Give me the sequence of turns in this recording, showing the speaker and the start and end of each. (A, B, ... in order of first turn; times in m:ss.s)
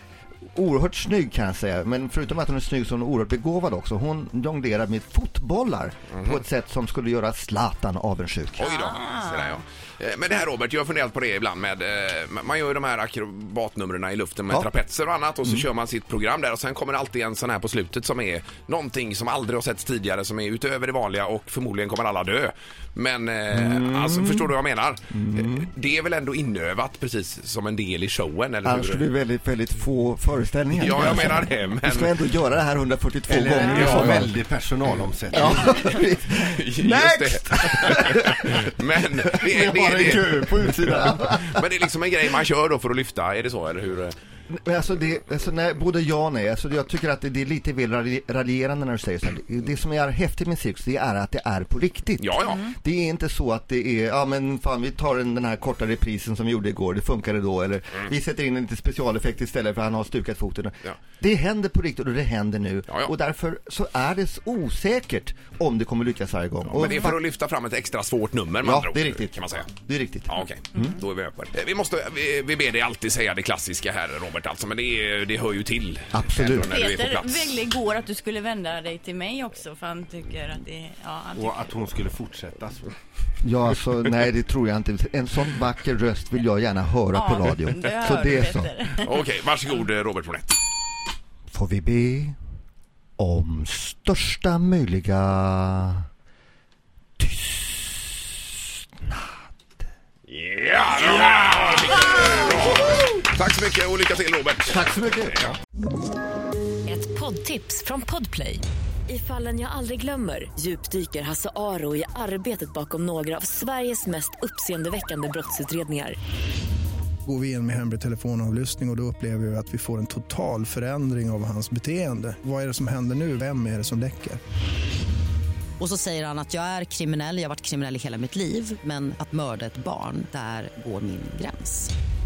0:00.5-0:08.7 A
0:08.6-0:29.0 B
0:08.8-0:09.5 C
0:23.5-0:24.5 A
0:25.1-0:25.7 A
0:28.6-0:34.4 A
0:30.7-0:32.1 B
0:33.3-0:35.7 D
0:33.6-0:34.3 B
0:35.3-0:41.6 A
0:35.5-0:35.8 B
0:36.5-0:40.4 B
0:39.6-0:41.1 D
0:41.4-0:44.1 B
0:44.5-1:07.2 A
0:52.2-0:52.7 B
1:06.7-1:09.7 B
1:08.6-1:10.8 A
1:10.3-1:17.5 B
1:16.1-1:16.7 A
1:16.7-1:21.6 C
1:21.3-1:22.9 D
1:23.4-1:28.7 A
1:27.1-1:29.1 C
1:29.0-1:30.6 B
1:31.5-1:32.4 A
1:33.2-1:36.0 A
1:37.2-1:38.4 A
1:39.0-1:39.4 A
1:40.3-1:45.5 B
1:44.7-1:45.6 A
1:46.8-1:56.2 E
1:57.2-2:04.4 F
2:05.8-2:11.9 G